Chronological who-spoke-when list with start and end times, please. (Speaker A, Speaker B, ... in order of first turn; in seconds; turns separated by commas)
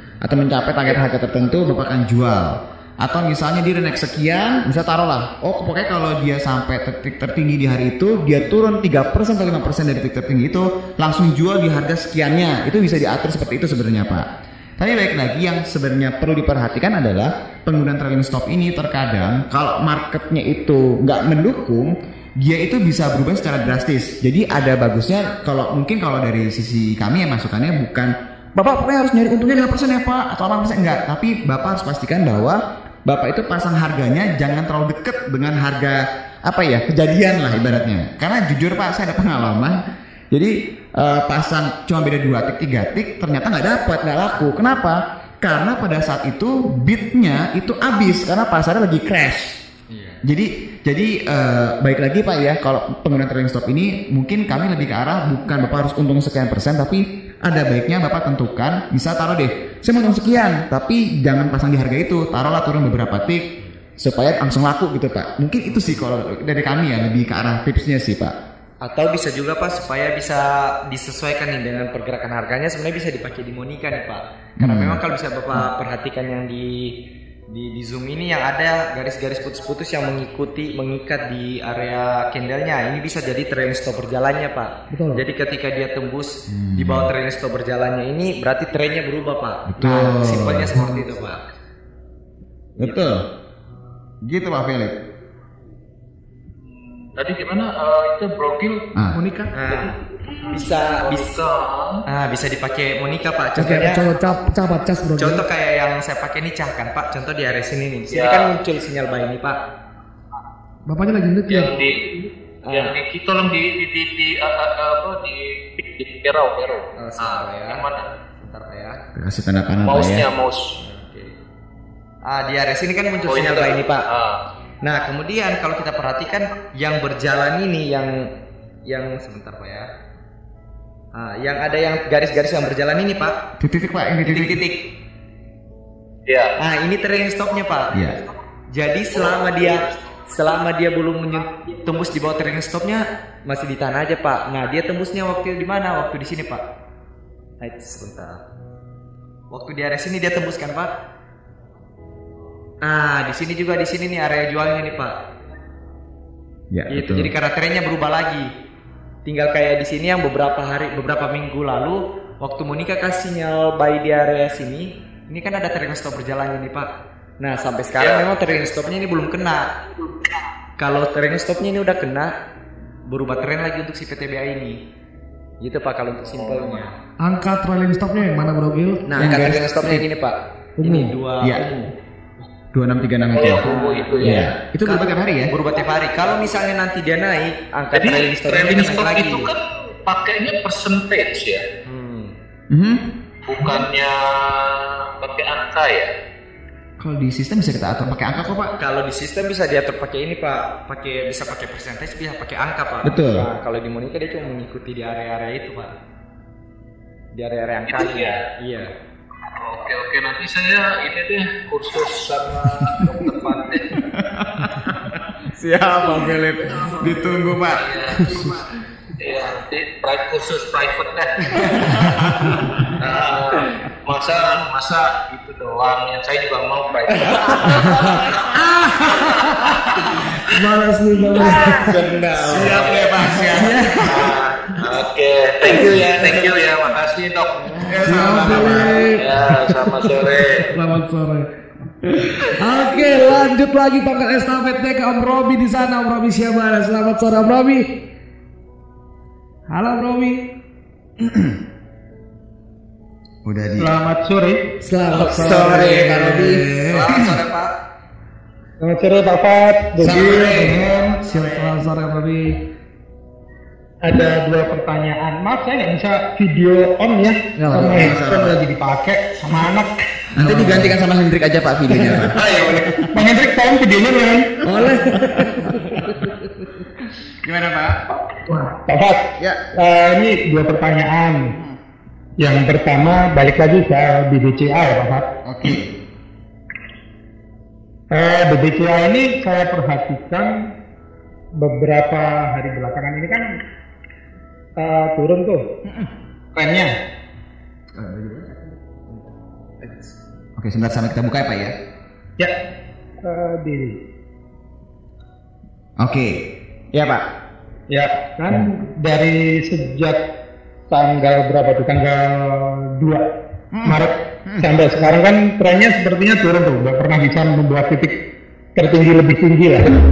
Speaker A: 0.2-14.2, Speaker A: 14.8-39.8, Speaker A: 40.3-49.5, Speaker B: 49.9-50.2, Speaker A: 50.2-63.4, Speaker A: 64.0-68.3, Speaker B: 65.7-66.0, Speaker B: 68.8-76.9, Speaker A: 74.6-75.0, Speaker B: 77.5-91.4, Speaker C: 84.9-85.2, Speaker A: 86.5-87.1, Speaker A: 89.7-90.7, Speaker A: 92.8-93.2, Speaker A: 94.2-94.9, Speaker D: 97.1-98.8, Speaker C: 99.1-99.5, Speaker B: 99.5-99.9, Speaker B: 100.5-101.3, Speaker D: 100.5-102.0, Speaker B: 102.0-104.0, Speaker C: 103.6-105.4, Speaker B: 105.2-109.6, Speaker D: 108.1-108.5, Speaker C: 110.9-111.8, Speaker D: 111.5-118.1, Speaker B: 112.6-113.0, Speaker B: 117.0-117.8, Speaker B: 118.4-119.0, Speaker A: 119.1-120.3, Speaker D: 119.8-120.7, Speaker B: 120.8-121.4, Speaker B: 122.3-124.0, Speaker D: 123.2-124.4, Speaker B: 124.8-128.3, Speaker B: 128.9-129.9, Speaker B: 131.1-133.4, Speaker A: 133.6-134.6, Speaker B: 134.3-134.8, Speaker D: 136.3-136.5, Speaker B: 136.6-137.9, Speaker A: 137.9-138.2, Speaker B: 138.7-146.6, Speaker D: 139.1-140.6, Speaker D: 141.3-141.7, Speaker B: 147.6-148.4, Speaker B: 149.5-150.9, Speaker B: 152.8-155.2, Speaker A: 156.7-157.3, Speaker B: 156.9-158.5, Speaker B: 159.3-169.7, Speaker D: 167.9-168.7, Speaker B: 170.8-172.3, Speaker B: 173.1-174.8, Speaker B: 175.6-176.9, Speaker D: 176.2-176.9, Speaker C: 177.2-179.1, Speaker B: 179.1-181.9, Speaker A: 179.2-180.1, Speaker C: 180.8-181.1, Speaker A: 181.4-181.8, Speaker A: 182.7-185.5, Speaker D: 183.3-184.5, Speaker B: 183.6-189.5, Speaker D: 185.7-186.6, Speaker D: 187.9-191.6, Speaker B: 191.9-192.3, Speaker A: 192.7-193.1, Speaker D: 193.4-196.1, Speaker A: 197.0-198.7, Speaker B: 198.8-205.9, Speaker A: 203.0-203.5, Speaker B: 207.3-208.9, Speaker D: 207.9-208.5, Speaker D: 209.6-214.0, Speaker A: 213.9-217.8, Speaker D: 216.7-218.7, Speaker D: 219.2-221.8, Speaker A: 221.9-222.4, Speaker D: 223.0-228.3, Speaker C: 227.9-229.5, Speaker D: 229.3-230.0, Speaker C: 230.5-232.2, Speaker D: 231.3-233.5, Speaker A: 232.5-233.9, Speaker C: 233.6-234.0, Speaker D: 234.0-237.8, Speaker A: 237.9-239.1, Speaker C: 237.9-241.4, Speaker D: 238.4-240.7, Speaker C: 242.0-247.9, Speaker D: 242.8-243.3, Speaker C: 249.7-250.4, Speaker A: 251.2-251.6, Speaker A: 253.4-253.9, Speaker E: 253.8-254.6, Speaker C: 254.8-257.1, Speaker B: 255.1-257.7, Speaker A: 255.3-257.4, Speaker E: 258.8-261.1, Speaker A: 260.0-260.8, Speaker B: 260.3-261.8, Speaker C: 261.3-262.6, Speaker E: 264.0-269.9, Speaker C: 267.6-268.1, Speaker A: 267.8-268.6, Speaker A: 270.3-273.1, Speaker C: 270.5-270.9, Speaker E: 272.3-274.5, Speaker C: 274.6-276.3, Speaker A: 274.7-276.1, Speaker A: 277.3-278.0, Speaker E: 278.5-279.2, Speaker E: 279.8-281.4, Speaker A: 281.4-281.8, Speaker E: 282.4-285.2, Speaker A: 285.4-285.9, Speaker E: 288.1-290.5, Speaker E: 291.6-293.4, Speaker E: 294.8-295.6, Speaker A: 295.8-296.1, Speaker E: 296.6-296.9, Speaker A: 297.9-298.8, Speaker B: 299.8-300.1, Speaker A: 300.6-301.7, Speaker E: 303.3-303.9, Speaker A: 306.0-306.4, Speaker A: 306.9-307.2, Speaker E: 307.9-310.2, Speaker E: 310.9-313.2, Speaker A: 313.7-314.7, Speaker E: 314.6-318.1, Speaker E: 318.8-319.9